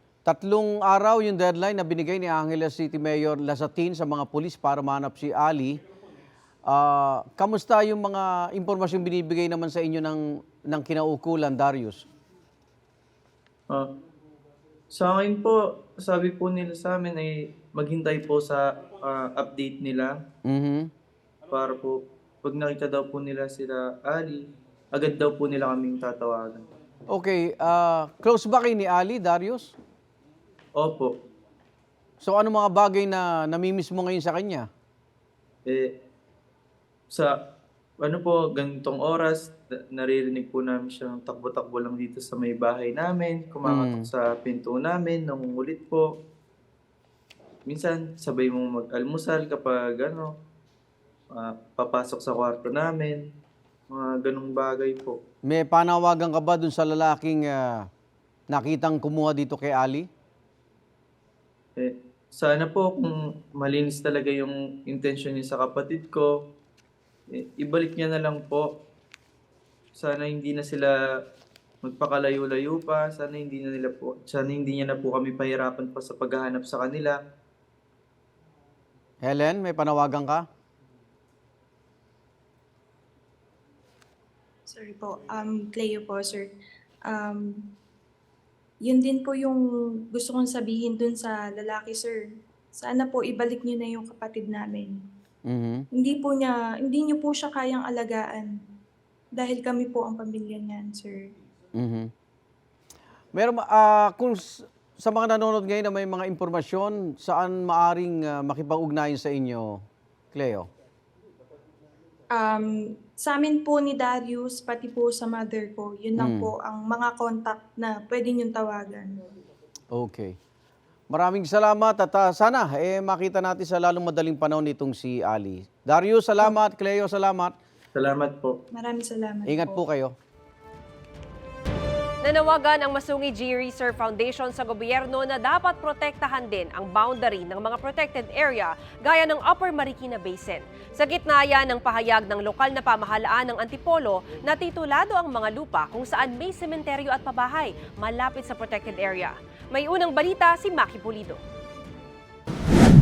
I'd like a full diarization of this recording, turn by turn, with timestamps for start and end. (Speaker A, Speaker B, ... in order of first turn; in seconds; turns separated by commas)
Speaker A: 0.3-5.8, Speaker A: 6.7-12.0, Speaker B: 14.9-20.1, Speaker A: 20.5-20.9, Speaker B: 21.5-24.4, Speaker B: 24.9-26.6, Speaker A: 27.1-29.7, Speaker B: 30.8-31.1, Speaker A: 32.2-34.7, Speaker B: 38.0-46.1, Speaker A: 43.7-44.0, Speaker B: 47.7-50.3, Speaker B: 51.4-53.2, Speaker B: 53.9-55.1, Speaker A: 55.5-57.9, Speaker A: 58.5-60.1, Speaker B: 61.8-66.3, Speaker B: 67.3-68.7, Speaker B: 70.0-70.9, Speaker B: 71.8-77.2, Speaker A: 79.2-80.5, Speaker C: 84.7-86.5, Speaker C: 87.1-87.5, Speaker C: 88.9-92.2, Speaker C: 92.8-94.9, Speaker A: 95.5-95.8, Speaker C: 96.0-98.5, Speaker C: 99.4-101.2, Speaker A: 101.8-102.1, Speaker A: 103.3-109.8, Speaker A: 110.3-110.7, Speaker C: 112.3-119.1, Speaker A: 116.2-116.5, Speaker A: 119.9-120.3, Speaker A: 121.1-127.5, Speaker B: 128.0-128.6, Speaker C: 128.7-129.8, Speaker A: 129.5-130.1, Speaker D: 132.2-151.4